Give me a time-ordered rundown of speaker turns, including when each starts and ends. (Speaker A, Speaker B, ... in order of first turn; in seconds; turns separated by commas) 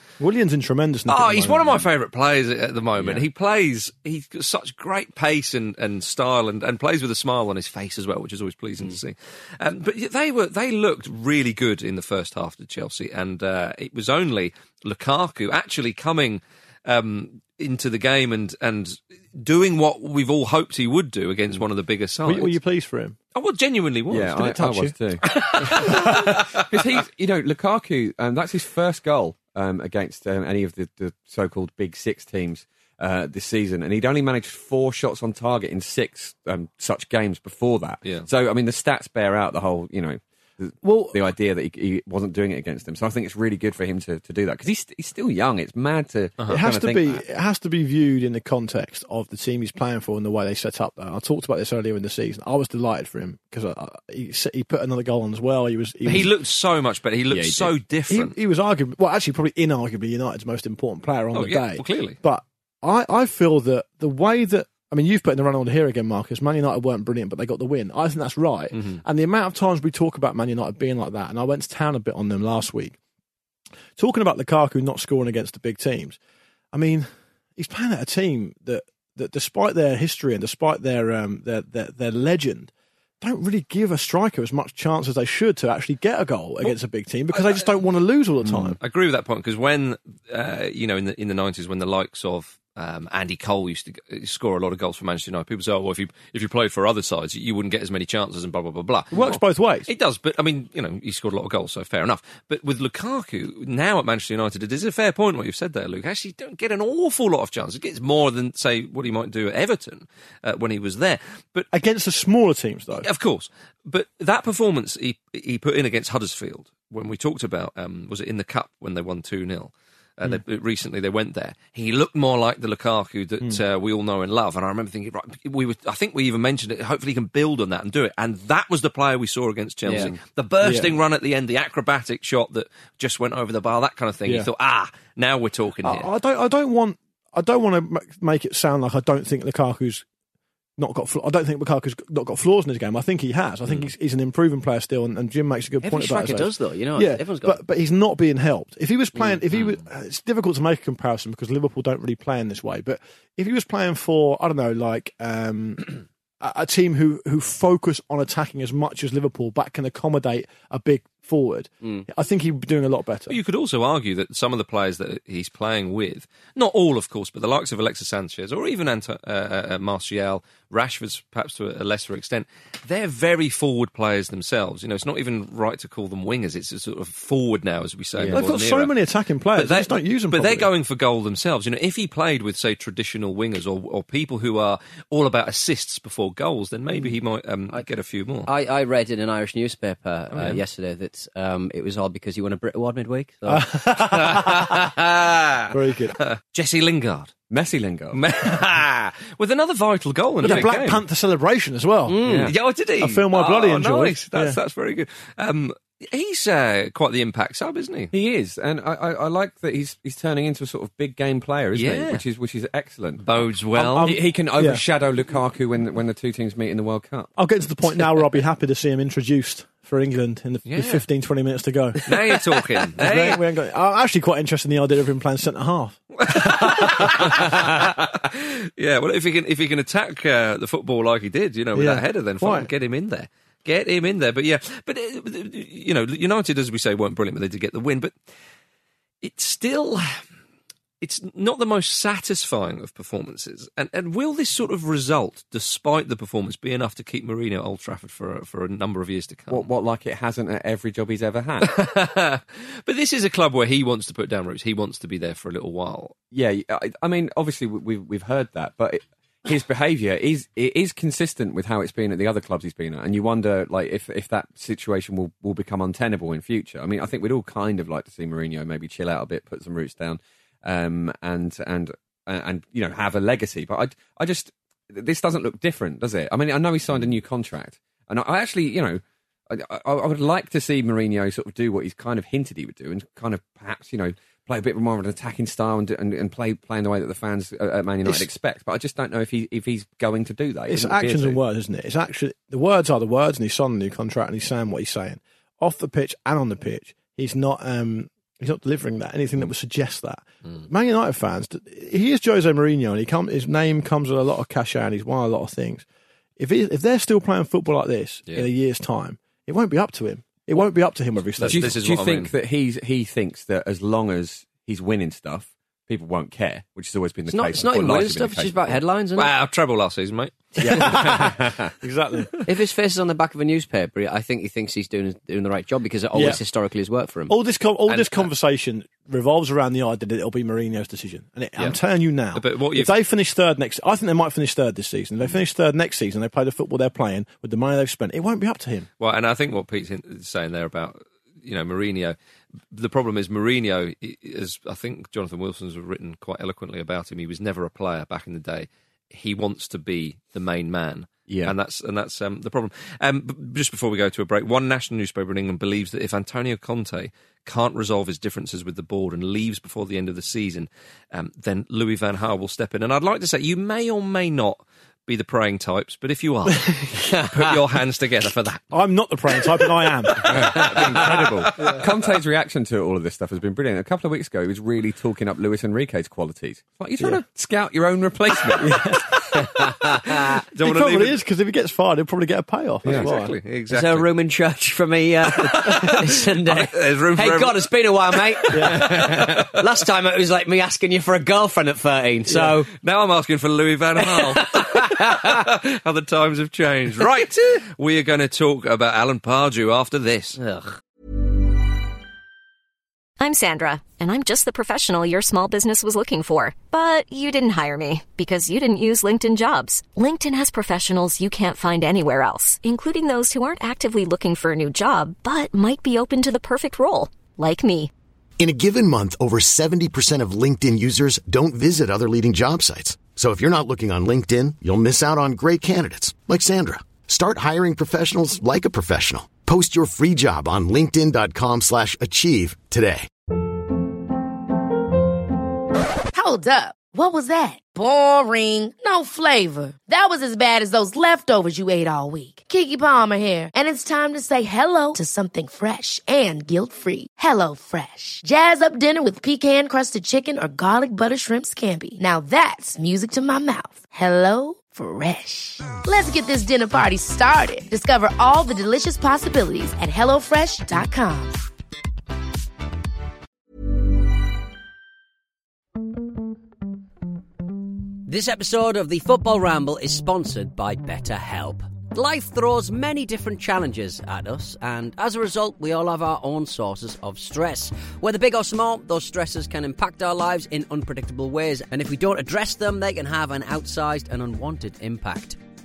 Speaker A: 0.2-1.9, Speaker B: 1.1-22.6, Speaker A: 22.2-23.2, Speaker B: 23.3-24.5, Speaker C: 24.1-47.2, Speaker A: 24.3-24.9, Speaker B: 25.3-26.6, Speaker A: 25.6-26.2, Speaker A: 40.8-41.1, Speaker A: 46.5-56.3, Speaker B: 56.0-58.3, Speaker C: 57.3-57.7, Speaker A: 58.1-73.0, Speaker B: 61.3-62.2, Speaker B: 68.7-69.0, Speaker A: 74.0-76.2, Speaker A: 76.7-88.8, Speaker B: 87.3-87.7, Speaker C: 88.5-88.7, Speaker B: 88.8-111.7, Speaker A: 99.1-99.9, Speaker A: 111.7-113.1, Speaker B: 113.0-136.1, Speaker C: 129.8-130.2, Speaker A: 130.6-130.9, Speaker A: 135.8-140.0, Speaker A: 140.8-163.3, Speaker D: 145.8-147.6, Speaker B: 163.3-178.9, Speaker C: 178.2-178.5, Speaker A: 178.3-180.7, Speaker B: 179.5-188.5, Speaker D: 188.4-193.6, Speaker B: 190.3-190.6, Speaker A: 193.4-194.9, Speaker B: 194.1-197.3, Speaker A: 195.7-196.2, Speaker C: 197.5-198.2, Speaker B: 198.1-201.0, Speaker A: 200.4-202.2, Speaker D: 202.1-202.5, Speaker C: 202.2-202.5, Speaker B: 202.4-208.1, Speaker A: 203.0-204.6, Speaker C: 208.1-217.3, Speaker B: 211.7-212.2, Speaker B: 213.2-214.1, Speaker A: 213.9-214.8, Speaker A: 217.3-227.7, Speaker B: 220.7-221.0, Speaker B: 222.1-223.4, Speaker B: 226.2-238.1, Speaker A: 231.7-232.7, Speaker B: 239.2-240.2, Speaker B: 241.0-249.7, Speaker C: 249.5-251.7, Speaker B: 251.6-256.1, Speaker C: 256.3-291.4, Speaker A: 290.7-305.8, Speaker A: 306.4-311.8, Speaker B: 311.4-312.3, Speaker C: 311.4-318.8, Speaker D: 317.3-319.3, Speaker B: 319.1-321.3, Speaker A: 320.6-322.3, Speaker C: 320.6-321.6, Speaker D: 322.4-327.3, Speaker A: 326.1-326.4, Speaker A: 327.3-338.9, Speaker D: 327.9-328.2, Speaker B: 332.3-332.9, Speaker B: 339.0-342.1, Speaker B: 342.7-368.7, Speaker C: 351.3-351.5, Speaker A: 368.7-371.1, Speaker C: 370.2-379.0, Speaker B: 370.2-371.9, Speaker A: 378.6-379.2, Speaker D: 379.4-380.2, Speaker B: 380.5-381.2, Speaker A: 380.6-383.4, Speaker C: 382.8-383.1, Speaker B: 382.8-384.1, Speaker D: 383.7-392.7, Speaker B: 385.4-389.6, Speaker A: 385.6-385.9, Speaker A: 388.5-389.0, Speaker B: 392.7-400.4, Speaker D: 394.0-395.4, Speaker D: 400.4-400.8, Speaker E: 403.2-417.9, Speaker F: 418.4-433.1, Speaker G: 436.1-461.4, Speaker D: 468.1-485.4